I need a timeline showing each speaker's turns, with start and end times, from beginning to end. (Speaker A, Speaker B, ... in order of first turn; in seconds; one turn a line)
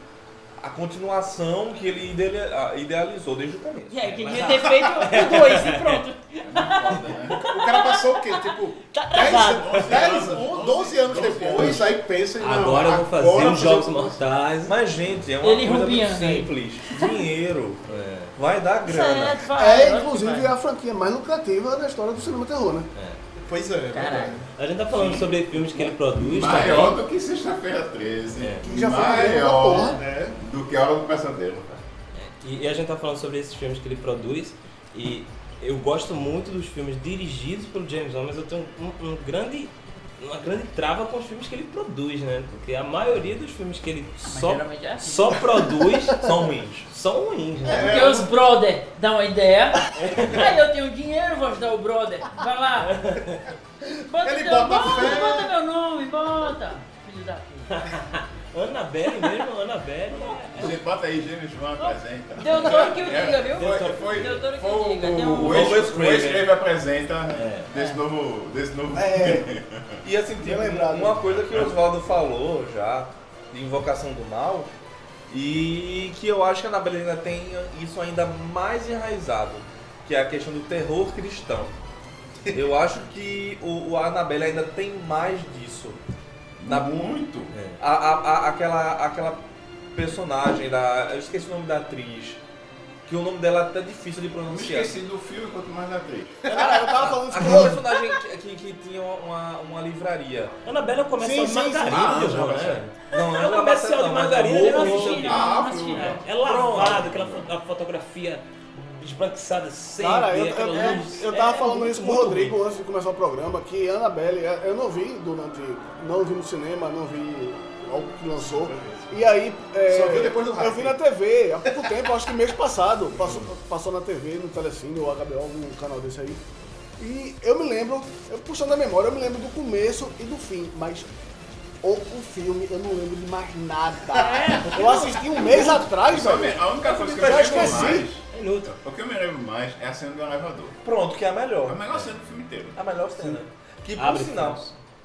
Speaker A: 0.6-4.0
Speaker B: 3.9-9.8
Speaker C: 4.0-6.0
Speaker D: 6.4-7.4
Speaker E: 7.3-14.2
Speaker D: 9.2-11.9
Speaker C: 12.4-14.7
Speaker A: 14.6-17.8
Speaker B: 15.4-17.2
Speaker C: 17.9-18.3
Speaker A: 18.3-19.4
Speaker B: 18.8-20.5
Speaker F: 19.5-22.9
Speaker C: 22.9-23.2
Speaker E: 23.4-24.5
Speaker B: 23.9-24.4
Speaker C: 24.5-27.0
Speaker D: 24.9-31.8
Speaker C: 28.4-28.7
Speaker F: 28.6-30.0
Speaker E: 29.9-30.4
Speaker C: 32.1-46.3
Speaker B: 44.3-45.4
Speaker A: 46.2-46.9
Speaker C: 46.9-48.2
Speaker E: 47.6-48.3
Speaker B: 47.7-53.0
Speaker C: 49.9-50.5
Speaker C: 52.8-53.4
Speaker E: 53.8-55.5
Speaker B: 54.1-57.8
Speaker C: 57.7-60.8
Speaker D: 60.1-70.0
Speaker B: 61.8-65.6
Speaker C: 63.4-64.4
Speaker A: 65.4-66.5
Speaker C: 65.6-65.9
Speaker C: 67.3-67.7
Speaker F: 68.9-69.5
Speaker A: 70.0-74.7
Speaker F: 70.4-71.2
Speaker A: 75.3-81.7
Speaker A: 82.5-86.0
Speaker D: 86.6-87.5
Speaker C: 87.5-87.8
Speaker A: 87.8-89.4
Speaker A: 89.9-92.4
Speaker A: 93.0-94.9
Speaker D: 94.5-96.4
Speaker F: 96.5-97.8
Speaker E: 96.5-96.8
Speaker A: 97.0-100.5
Speaker C: 100.6-112.5
Speaker F: 101.2-102.4
Speaker D: 101.8-102.9
Speaker A: 103.0-105.4
Speaker B: 104.6-106.2
Speaker D: 105.2-107.5
Speaker A: 106.4-107.0
Speaker F: 110.0-126.4
Speaker E: 118.7-119.0
Speaker E: 119.9-121.0
Speaker F: 127.0-131.1
Speaker F: 131.8-138.1
Speaker B: 134.2-134.6
Speaker C: 134.3-135.8
Speaker D: 135.6-140.8
Speaker C: 136.8-138.7
Speaker A: 140.8-141.8
Speaker D: 141.6-142.8
Speaker A: 142.7-144.6
Speaker C: 143.9-144.7